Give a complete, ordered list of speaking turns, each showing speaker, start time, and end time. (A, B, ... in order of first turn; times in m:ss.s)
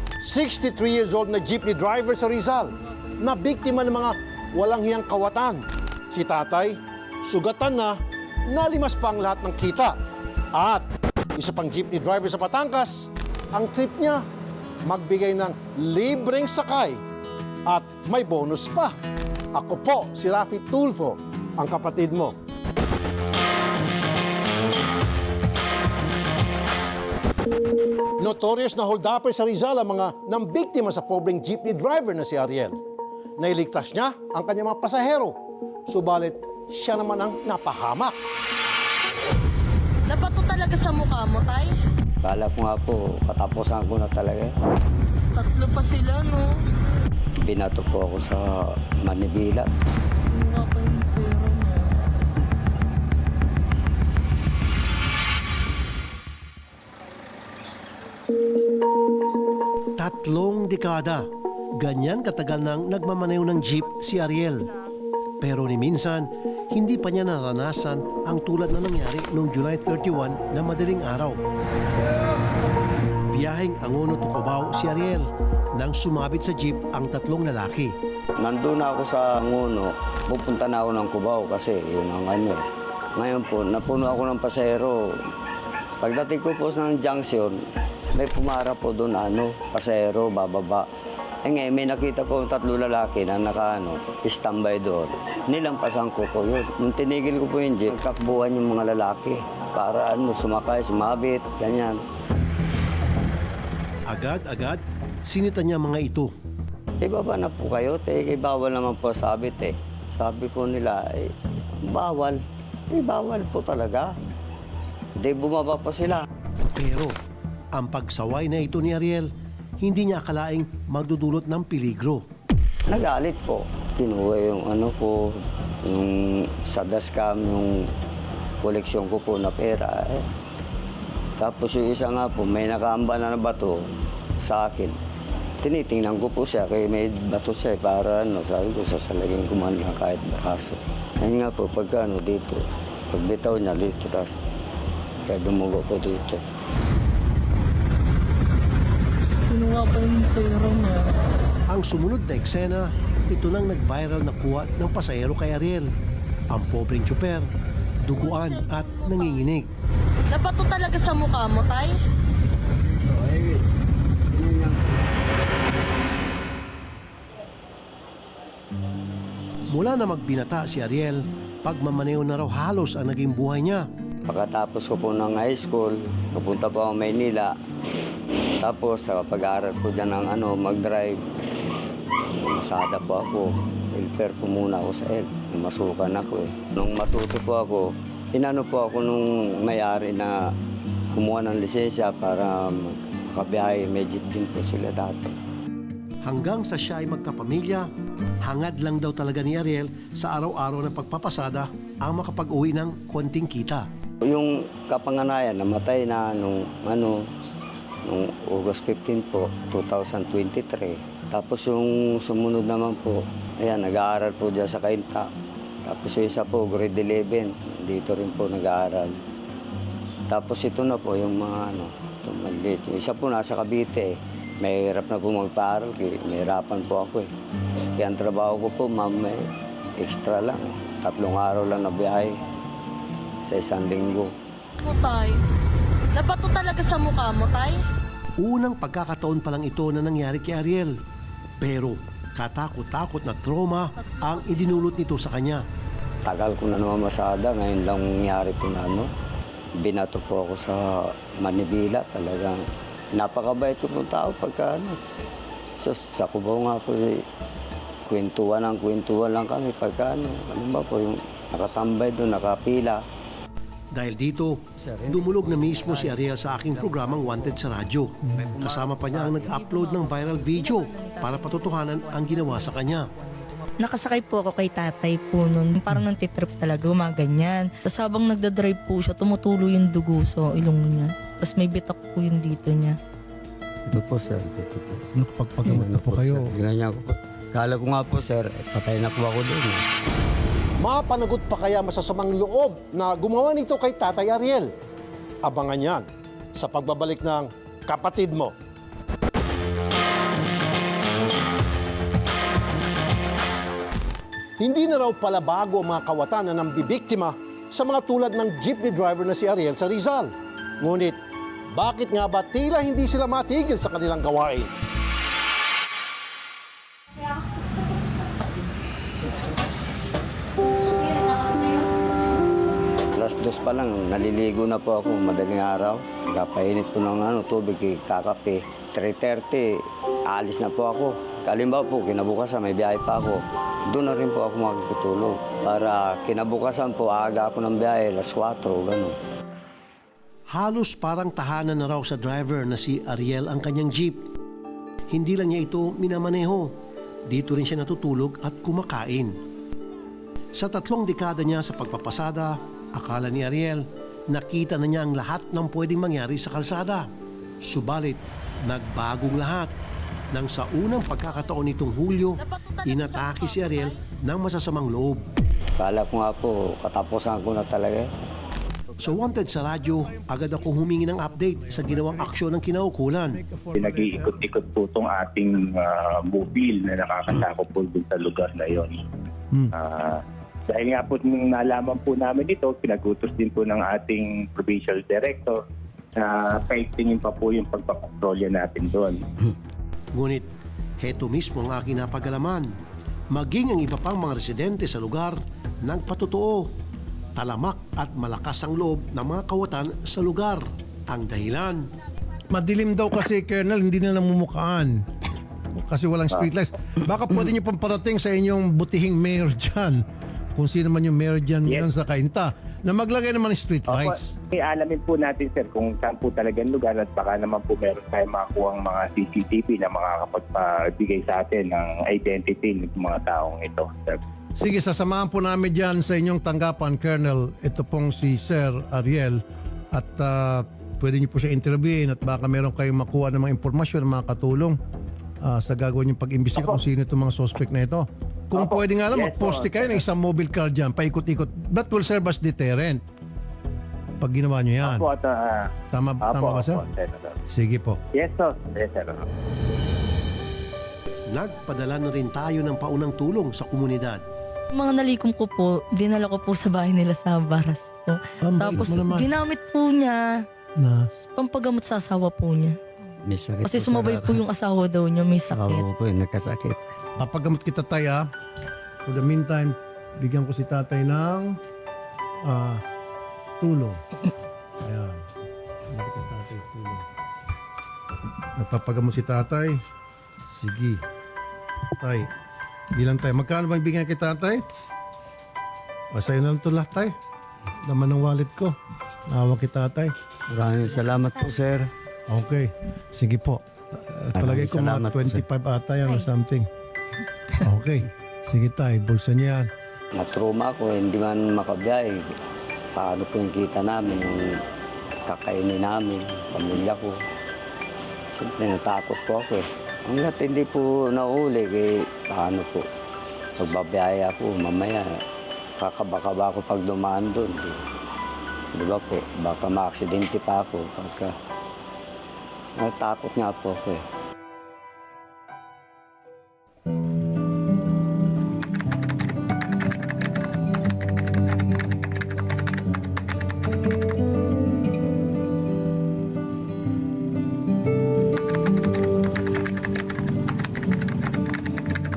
0:00.2-0:08.0 A
0:08.5-0:10.0 A
0:10.5-0:14.2 A
0:14.9-0:17.0 A
0:17.7-0:19.0 A
0:19.6-0:22.4 A
0:28.2-0:32.8 A
0:33.4-0:38.2 A
0:40.1-0:41.7 B
0:42.2-0:44.5 C
0:45.4-0:46.6 B
0:47.4-0:49.7 C
0:50.3-0:52.2 B
1:00.0-1:04.7 D
1:05.4-1:11.4 D
1:13.3-1:18.0 D
1:18.4-1:22.6 C
1:23.2-1:25.2 C
1:26.0-1:27.6 C
1:28.1-1:30.9 C
1:31.4-1:42.0 C
1:44.1-1:46.3 D
1:47.0-1:51.3 C
1:51.8-1:54.1 C
1:55.2-1:56.3 C
1:56.7-1:57.2 D
1:57.8-1:59.3 D
1:59.8-2:02.2 D
2:02.9-2:07.9 C
2:08.6-2:10.3 C
2:11.4-2:13.9 C
2:14.4-2:15.0 C
2:15.6-2:24.4 C
2:25.3-2:26.4 C
2:29.5-2:31.3 B
2:31.7-2:35.9 D
2:36.5-2:37.5 D
2:38.0-2:39.7 D
2:38.2-2:39.4 B
2:40.3-2:41.9 B
2:49.7-2:53.9 D
2:54.3-2:57.6 C
2:58.6-3:01.2 C
3:02.4-3:10.4 C
3:11.1-3:15.4 C
3:16.2-3:17.9 D
3:18.4-3:23.9 D
3:24.2-3:27.2 C
3:28.1-3:35.3 C
3:35.8-3:39.2 C
3:40.3-3:47.3 C
3:48.0-3:49.5 C
3:50.0-3:52.4 C
3:53.4-3:54.3 C
3:54.8-3:55.4 B
3:56.2-3:57.8 B
3:58.4-4:00.9 D
4:01.6-4:05.6 D
4:04.0-4:04.9 B
4:06.2-4:09.1 C
4:09.8-4:12.6 C
4:13.1-4:15.0 C
4:15.8-4:17.2 C
4:18.1-4:23.0 C
4:23.9-4:33.1 D
4:24.8-4:27.6 C
4:28.3-4:30.0 C
4:29.8-4:32.4 E
4:33.8-4:43.0 E
4:43.9-4:45.1 C
4:45.2-4:46.5 F
4:45.6-4:49.8 C
4:50.8-4:54.7 A
4:55.4-4:58.5 A
5:04.6-5:11.2 A
5:11.7-5:14.7 A
5:23.2-5:39.2 C
5:40.5-5:44.3 D
5:45.1-5:46.8 D
5:47.3-5:49.4 D
5:50.6-5:57.1 D
5:57.6-5:59.7 D
6:00.3-6:05.3 D
6:02.4-6:04.0 B
6:05.8-6:08.1 C
6:09.0-6:13.4 D
6:09.0-6:10.3 F
6:11.4-6:12.3 F
6:13.3-6:14.4 F
6:13.8-6:19.0 G
6:19.7-6:25.6 G
6:26.2-6:29.2 G
6:30.2-6:30.5 D
6:31.0-6:32.7 D
6:33.3-6:36.7 D
6:37.4-6:41.9 D
6:42.5-6:45.0 F
6:45.8-6:50.0 F
6:50.6-6:54.3 F
6:53.9-7:04.2 G
7:04.6-7:09.4 F
7:09.9-7:14.8 F
7:15.4-7:23.0 F
7:16.6-7:16.8 G
7:18.5-7:20.0 G
7:24.2-7:25.1 F
7:24.8-7:25.7 G
7:25.9-7:26.8 F
7:26.2-7:27.4 G
7:27.5-7:28.0 F
7:28.1-7:29.2 G
7:31.3-7:34.2 D
7:34.7-7:40.4 E
7:38.4-7:39.3 F
7:40.8-7:41.1 F
7:41.2-7:42.8 E
7:43.3-7:44.4 C
7:43.6-7:45.9 E
7:45.5-7:47.0 C
7:47.2-7:48.3 F
7:49.1-7:51.6 F
7:52.4-7:52.8 F
7:53.6-7:54.0 F
7:54.8-7:55.2 F
7:55.9-7:57.0 F
7:58.6-7:59.8 F
8:00.5-8:01.0 F
8:02.0-8:02.3 F
8:03.0-8:04.6 F
8:06.1-8:07.1 F
8:07.9-8:08.8 F
8:09.3-8:10.1 F
8:10.5-8:11.9 C
8:12.3-8:16.7 F
8:14.4-8:15.4 C
8:17.6-8:19.7 F
8:20.1-8:22.3 C
8:23.0-8:24.6 C
8:25.3-8:27.2 C
8:28.3-8:32.9 C
8:33.6-8:35.2 C
8:35.8-8:37.8 C
8:38.7-8:41.3 C
8:42.8-8:44.0 C